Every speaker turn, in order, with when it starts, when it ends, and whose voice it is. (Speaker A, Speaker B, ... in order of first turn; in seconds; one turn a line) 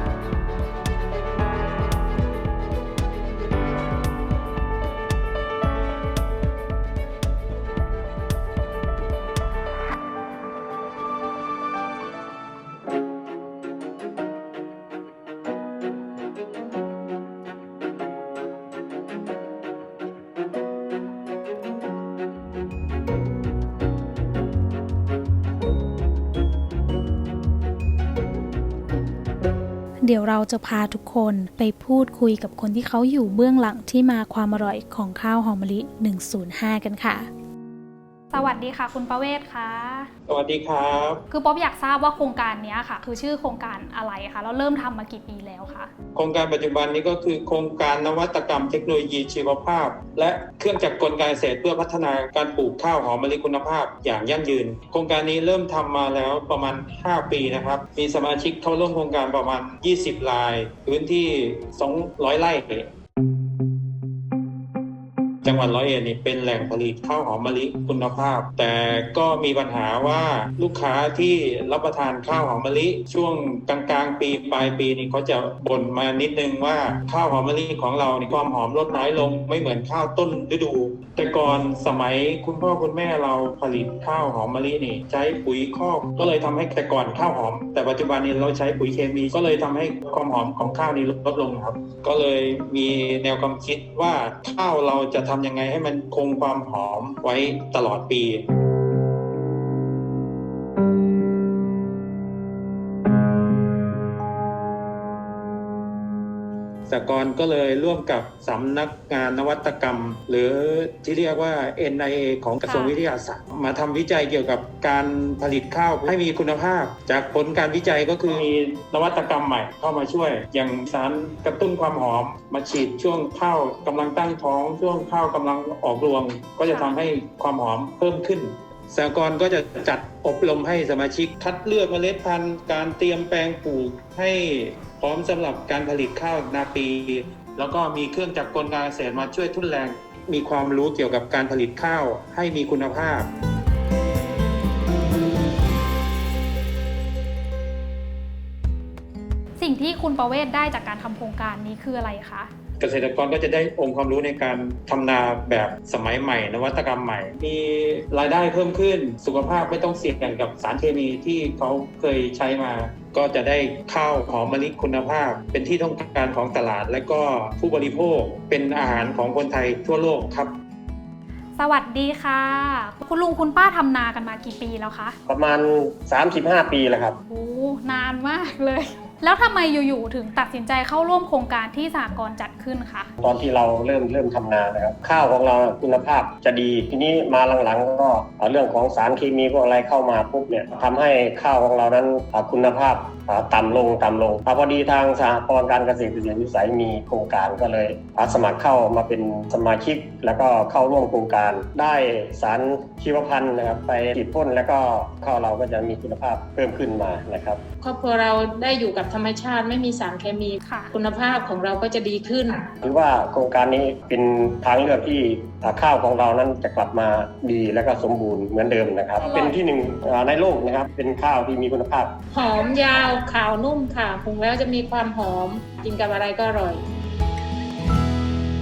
Speaker A: 30.0-37.2
Speaker B: 38.3-40.1
Speaker C: 40.3-41.2
Speaker B: 41.3-45.9
Speaker C: 46.1-62.9
Speaker C: 65.4-98.4
Speaker C: 106.9-143.3
Speaker B: 112.6-113.0
Speaker B: 126.7-126.9
Speaker B: 149.6-152.5
Speaker C: 152.8-170.5
Speaker B: 171.6-175.2
Speaker D: 175.3-177.2
Speaker B: 177.3-183.1
Speaker D: 183.2-207.6
Speaker E: 207.8-212.8
Speaker B: 210.6-210.9
Speaker D: 212.8-222.1
Speaker B: 219.2-219.6
Speaker E: 222.3-226.8